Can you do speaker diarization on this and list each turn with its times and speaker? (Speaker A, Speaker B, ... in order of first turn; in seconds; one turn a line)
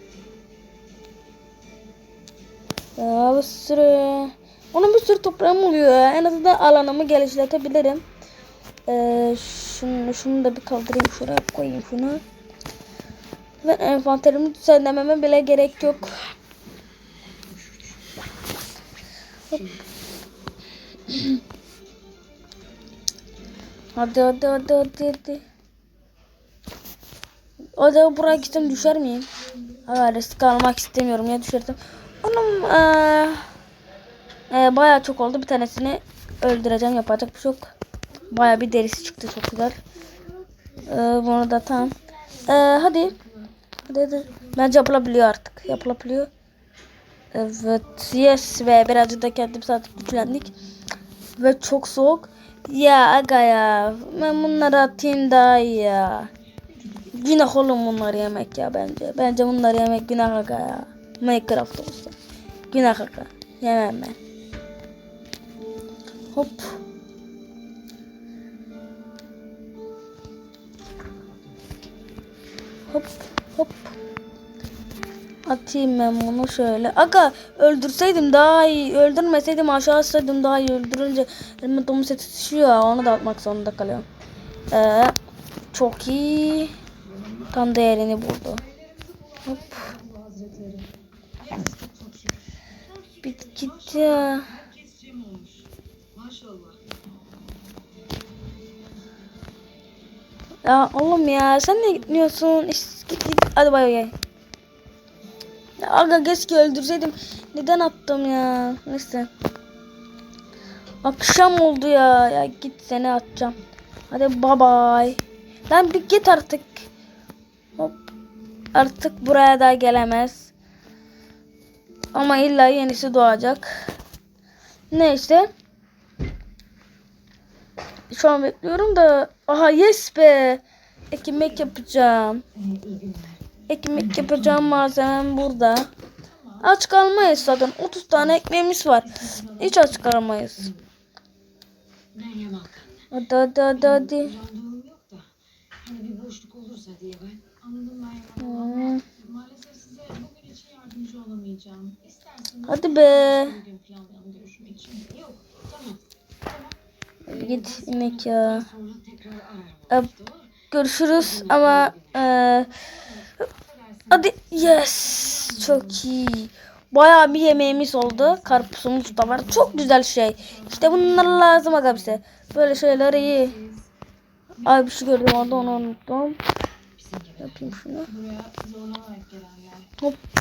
Speaker A: 3.0-8.0
Speaker A: 8.9-12.2
Speaker A: 13.6-16.3
Speaker A: 19.5-19.8
Speaker A: 21.1-21.4
Speaker A: 23.9-25.4
Speaker A: 27.8-29.3
Speaker A: 29.9-33.5
Speaker A: 34.5-37.7
Speaker A: 38.3-39.8
Speaker A: 40.8-43.2
Speaker A: 43.8-46.3
Speaker A: 47.3-50.5
Speaker A: 51.4-56.3
Speaker A: 57.1-62.1
Speaker A: 62.7-64.2
Speaker A: 66.3-66.8
Speaker A: 72.9-73.9
Speaker A: 75.4-84.0
Speaker A: 84.7-85.2
Speaker A: 85.7-86.7
Speaker A: 87.5-88.6
Speaker B: 88.7-96.8
Speaker A: 89.5-89.8
Speaker A: 93.2-94.6
Speaker A: 100.6-104.1
Speaker A: 105.8-109.3
Speaker A: 111.0-113.6
Speaker A: 114.1-116.9
Speaker A: 118.7-120.5
Speaker A: 122.1-123.7
Speaker A: 124.9-125.5
Speaker A: 128.1-132.4
Speaker B: 132.6-133.4
Speaker A: 133.7-135.9
Speaker A: 136.6-140.7
Speaker B: 139.2-139.7
Speaker C: 142.1-142.9
Speaker A: 143.1-144.4
Speaker C: 144.4-144.7
Speaker B: 144.6-145.2
Speaker B: 145.8-146.4
Speaker C: 145.8-147.4
Speaker B: 147.5-156.7
Speaker A: 148.4-149.0
Speaker A: 152.7-153.6
Speaker A: 157.3-158.7
Speaker C: 158.7-159.9
Speaker A: 160.7-162.8
Speaker C: 161.7-162.1
Speaker B: 163.1-164.1
Speaker A: 164.1-173.6
Speaker B: 171.4-171.8
Speaker B: 172.8-173.9
Speaker A: 174.6-176.4
Speaker B: 174.8-175.4
Speaker B: 177.0-179.9
Speaker A: 177.4-178.1